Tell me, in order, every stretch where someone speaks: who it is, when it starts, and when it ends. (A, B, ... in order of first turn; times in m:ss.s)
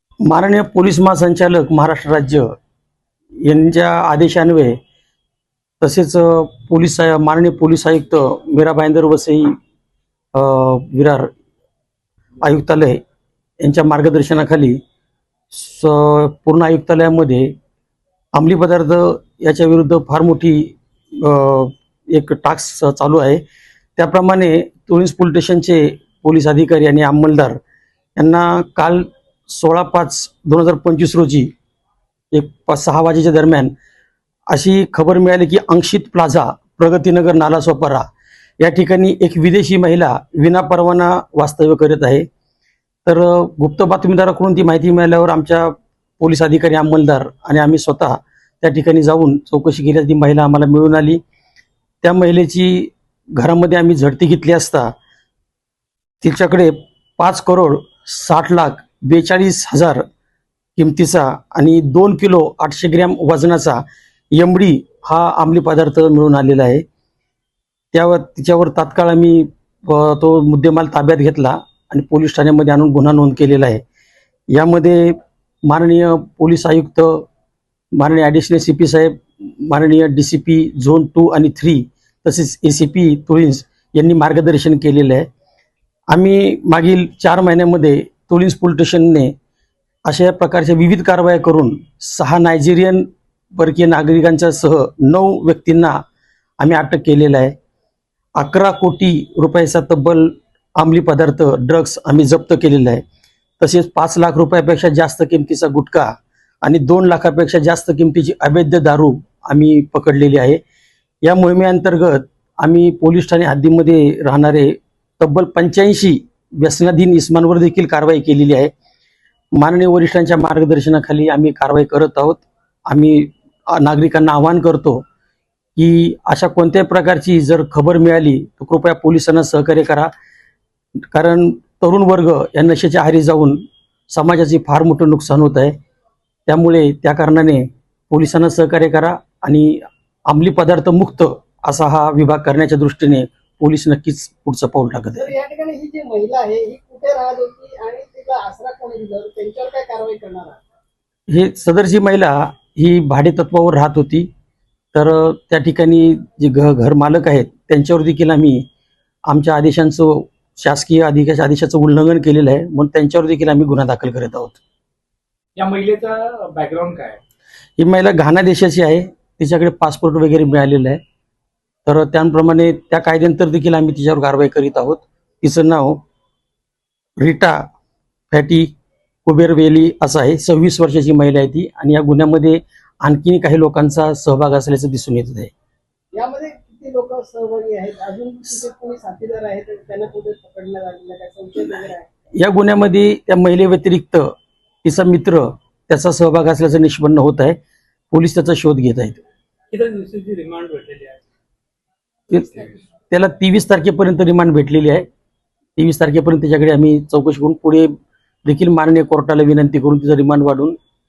0:00.2-0:02.5 A
0:03.4-0:04.8 A
0:05.8-0:09.5 A
0:10.3-0:11.3 A
0:12.4-0:13.0 A
0:13.6-0:14.8 A
0:15.5-0:17.5 A
0:18.3-0:23.4 A
0:24.0-0:27.6 A
0:28.2-0:31.5 A
0:32.3-0:33.7 A
0:34.5-0:38.0 A
0:38.6-0:42.3 A
0:43.0-0:51.2 A
0:52.0-0:55.0 A
0:56.2-1:00.0 A
1:00.8-1:06.8 A
1:07.9-1:13.8 A
1:14.5-1:17.3 A
1:17.9-1:25.3 A
1:26.1-1:29.3 A
1:30.0-1:36.0 A
1:36.6-1:37.6 A
1:38.4-1:43.0 A
1:43.6-1:50.6 A
1:51.2-1:58.7 A
1:59.6-2:05.0 A
2:05.8-2:10.1 A
2:11.1-2:15.8 A
2:16.5-2:25.3 A
2:25.2-2:30.6 B
2:31.3-2:34.3 A
2:34.9-2:38.6 A
2:39.3-2:44.6 A
2:45.6-2:47.2 C
2:47.8-2:51.0 A
2:51.9-2:56.0 A
2:57.2-2:57.6 A
2:58.3-2:58.7 A
2:59.3-3:05.5 A
3:06.1-3:12.1 B
3:12.4-3:17.6 A
3:18.1-3:19.2 A
3:19.7-3:21.3 C
3:22.3-3:25.1 A
3:25.8-3:27.9 A
3:28.4-3:30.8 A